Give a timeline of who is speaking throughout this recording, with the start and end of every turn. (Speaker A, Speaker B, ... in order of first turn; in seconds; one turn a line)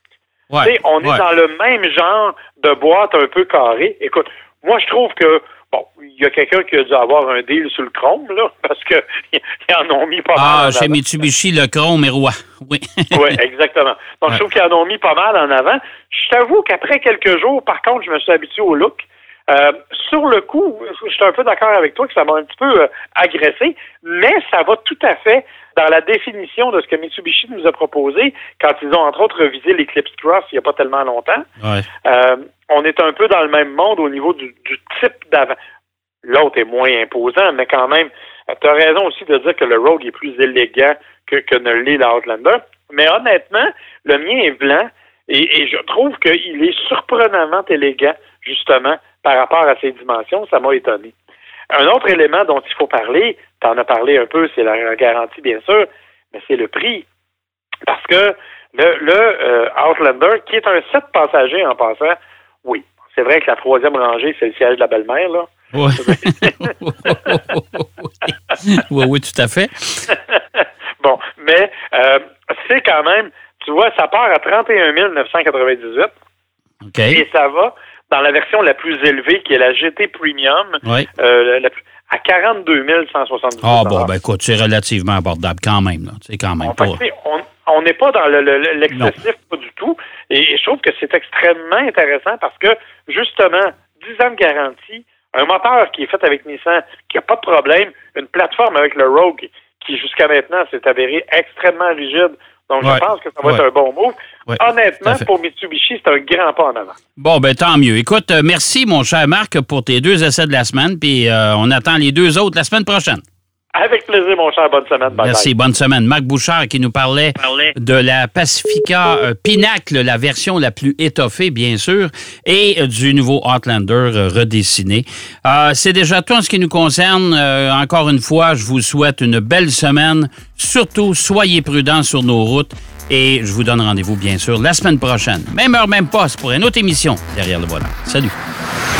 Speaker A: 0.5-1.2
Speaker B: 0.6-11.0
Speaker A: 10.4-13.4
Speaker B: 13.1-31.5
Speaker B: 32.0-35.6
Speaker B: 36.2-51.1
Speaker B: 51.7-57.1
Speaker B: 57.9-66.7
Speaker A: 65.7-70.1
Speaker B: 70.1-76.1
Speaker A: 76.9-77.2
Speaker B: 77.1-84.1
Speaker A: 83.6-87.0
Speaker B: 86.6-107.0
Speaker A: 102.8-103.6
Speaker A: 104.5-105.3
Speaker A: 107.2-113.2
Speaker B: 113.8-115.5
Speaker A: 115.2-138.3
Speaker B: 117.4-117.7